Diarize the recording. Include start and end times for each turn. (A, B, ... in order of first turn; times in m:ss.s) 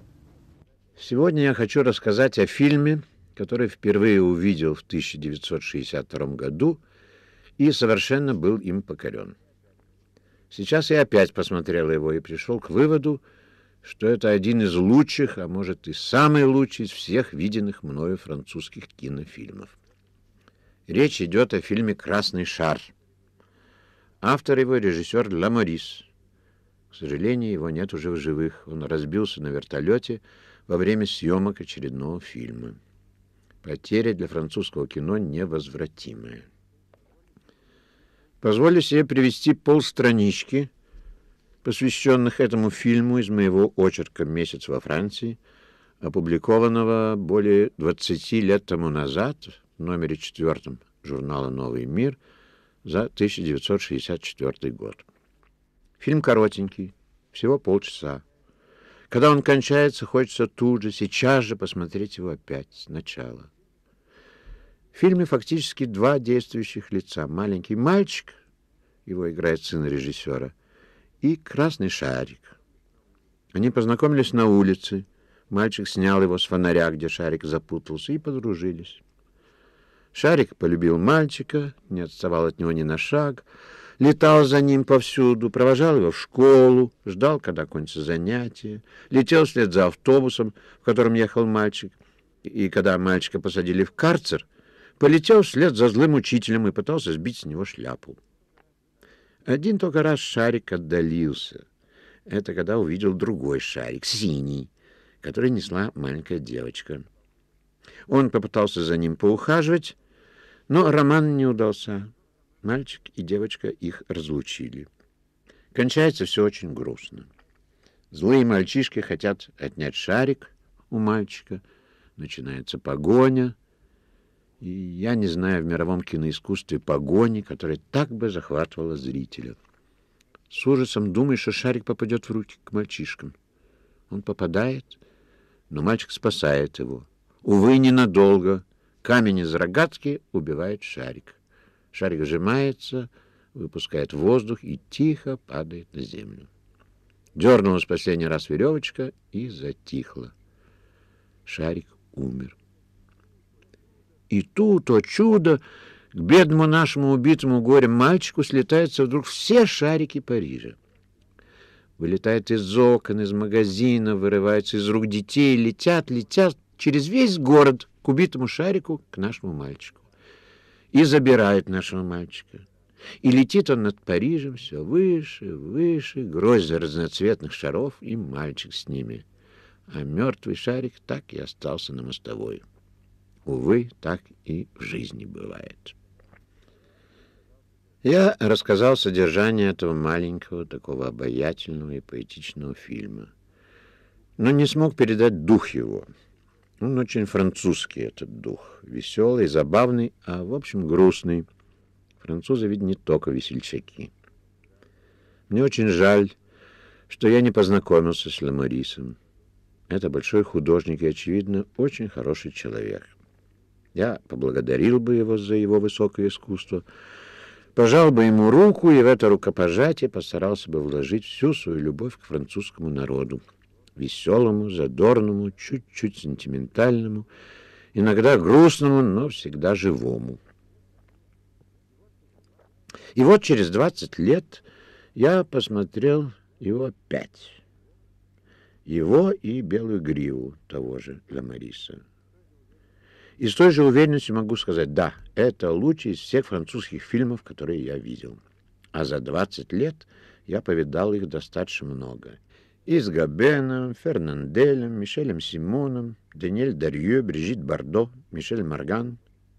0:01.0-0:06.8 A
0:07.6-0:09.4 A
0:10.5-0:13.2 A
0:13.8-0:19.8 A
0:20.9-0:22.9 A
0:24.2-0:26.1 A
0:26.9-0:32.8 A
0:33.6-0:36.5 A
0:38.4-0:40.7 A
0:41.6-0:45.4 A
0:46.0-0:52.2 A
0:52.8-0:55.1 A
0:56.0-0:58.2 A
0:59.1-1:03.5 A
1:04.9-1:08.4 A
1:09.1-1:10.5 A
1:11.2-1:12.6 A
1:13.5-1:19.0 A
1:20.1-1:23.5 A
1:24.0-1:34.5 A
1:35.0-1:38.2 A
1:39.5-1:41.6 A
1:42.3-1:44.7 A
1:45.2-1:47.1 A
1:48.1-1:50.0 A
1:50.7-1:52.1 A
1:52.6-1:54.9 A
1:55.7-1:57.3 A
1:58.1-2:01.6 A
2:02.2-2:03.6 A
2:04.6-2:09.6 A
2:10.5-2:13.4 A
2:14.1-2:15.0 A
2:15.7-2:21.4 A
2:21.9-2:26.5 A
2:27.4-2:30.3 A
2:31.5-2:32.6 A
2:34.3-2:35.6 A
2:36.1-2:40.8 A
2:42.0-2:50.0 A
2:50.9-2:52.6 A
2:53.2-2:59.2 A
2:59.9-3:02.6 A
3:03.5-3:06.0 A
3:08.0-3:13.3 A
3:14.4-3:16.1 A
3:16.8-3:21.5 A
3:22.2-3:24.1 A
3:25.5-3:26.4 A
3:27.1-3:29.2 A
3:29.9-3:33.1 A
3:34.0-3:36.9 A
3:37.8-3:43.4 A
3:44.0-3:47.3 A
3:47.9-3:50.4 A
3:53.1-3:54.6 A
3:55.2-3:57.6 A
3:58.8-4:02.0 A
4:03.4-4:08.4 A
4:08.9-4:19.2 A